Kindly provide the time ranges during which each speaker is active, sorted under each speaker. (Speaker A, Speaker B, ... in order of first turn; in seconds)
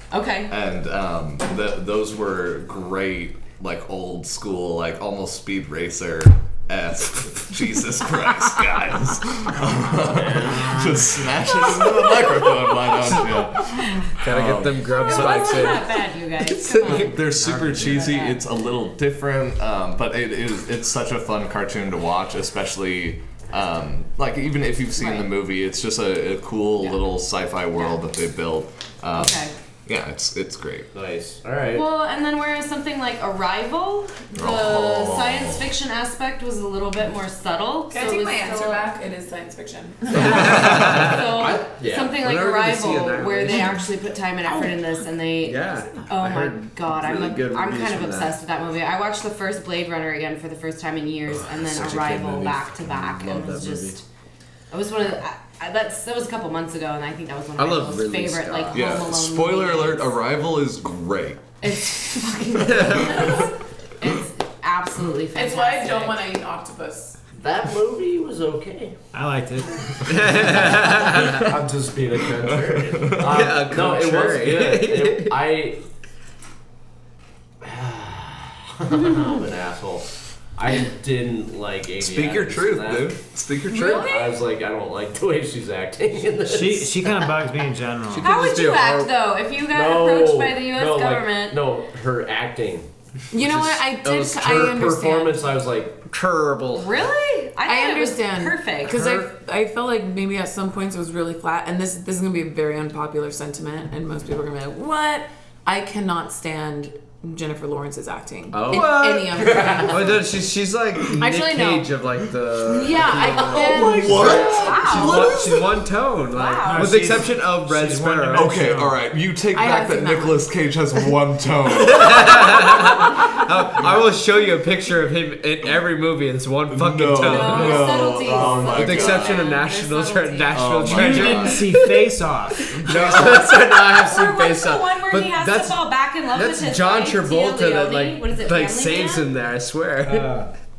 Speaker A: 0.1-0.5, 11.6-11.9, 14.8-18.4, 25.0-25.3, 27.8-28.0, 29.1-29.5, 31.7-38.9, 40.1-54.0, 54.7-60.2, 61.6-66.2, 83.7-84.4, 88.2-91.7, 96.7-99.2, 108.7-110.2, 113.0-115.3, 116.3-117.1, 127.2-130.8, 133.1-139.3
Speaker B: 0.5-15.5, 16.8-30.9, 34.4-35.7, 58.7-61.6, 62.8-63.5, 72.4-73.4, 82.0-84.1, 113.6-115.9, 118.3-123.0, 126.7-129.5, 130.5-131.7
Speaker C: 10.1-10.8, 30.9-31.9, 41.0-42.2, 67.3-69.0, 70.6-75.8, 77.6-83.2, 83.8-87.4, 89.7-92.9, 94.4-96.1, 114.2-114.6, 128.3-128.7
Speaker D: 14.2-17.9, 40.1-41.5, 42.0-43.8, 45.4-48.4, 51.3-54.0, 57.6-59.0, 70.0-71.6, 73.2-75.4, 88.1-89.1, 93.3-94.8, 96.1-96.9, 98.9-99.2, 108.5-118.6, 121.7-140.5
Speaker E: 37.9-40.8, 65.3-67.2, 93.3-95.5, 97.7-110.1, 111.2-111.9, 112.7-114.5, 119.5-120.4
Speaker F: 69.1-71.3, 86.5-88.3, 116.7-119.0, 130.8-133.1, 140.0-140.5